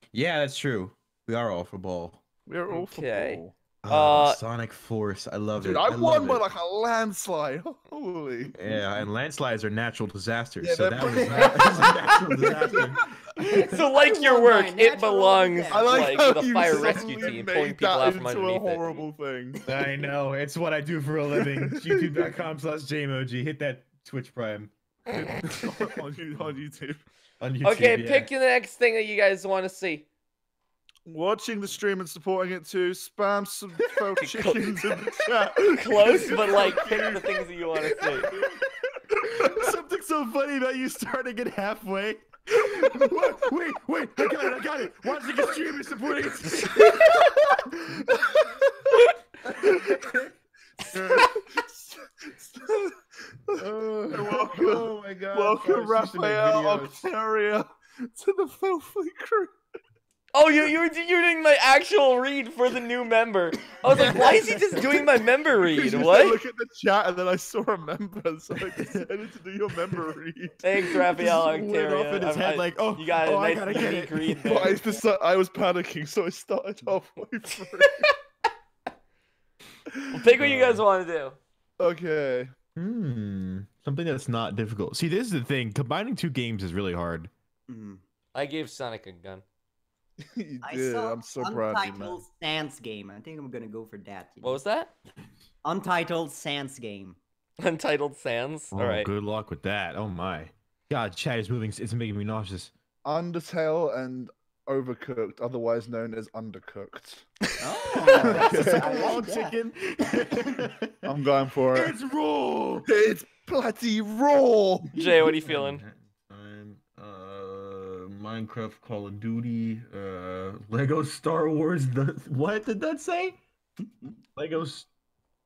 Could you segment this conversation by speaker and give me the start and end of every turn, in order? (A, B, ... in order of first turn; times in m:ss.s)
0:00.1-0:02.2 A
0:02.5-0:03.5 B
0:02.7-0:04.4 C
0:03.8-0:06.4 A
0:05.6-0:08.6 B
0:08.6-0:13.7 A
0:08.6-0:09.0 D
0:10.6-0:12.8 B
0:11.0-0:16.4 D
0:13.4-0:19.0 C
0:15.7-0:19.6 B
0:16.7-0:17.4 A
0:19.6-0:19.9 D
0:19.7-0:25.5 A
0:21.3-0:22.3 B
0:25.4-0:27.1 B
0:27.4-0:28.3 A
0:27.6-0:30.1 C
0:31.1-0:37.4 B
0:34.2-0:34.9 C
0:35.8-0:38.3 C
0:36.3-0:36.7 A
0:38.2-0:50.2 A
0:39.3-0:39.7 B
0:42.9-0:43.2 B
0:46.6-0:47.1 C
0:48.1-0:48.4 B
0:50.9-0:51.6 B
0:50.9-0:51.3 A
0:52.4-0:59.5 B
0:53.5-0:57.0 A
1:00.3-1:06.4 C
1:03.9-1:05.0 A
1:05.6-1:10.6 B
1:10.6-1:14.8 C
1:11.1-1:14.5 A
1:14.4-1:18.1 B
1:17.6-1:18.1 C
1:19.9-1:20.2 B
1:20.1-1:21.4 C
1:20.4-1:20.8 A
1:21.8-1:22.5 B
1:22.8-1:27.3 A
1:27.7-1:28.0 D
1:28.3-1:29.4 C
1:30.2-1:32.2 B
1:30.6-1:34.6 D
1:34.4-1:34.9 C
1:35.6-1:37.2 D
1:37.6-1:39.1 C
1:38.7-1:42.7 A
1:43.0-1:47.3 B
1:47.6-1:50.6 D
1:48.0-1:48.3 C
1:48.1-1:49.2 B
1:48.1-1:51.1 A
1:51.0-1:52.0 B
1:51.7-1:52.9 A
1:52.8-1:54.9 B
1:54.9-1:55.8 C
1:55.2-2:03.4 A
2:04.4-2:04.9 A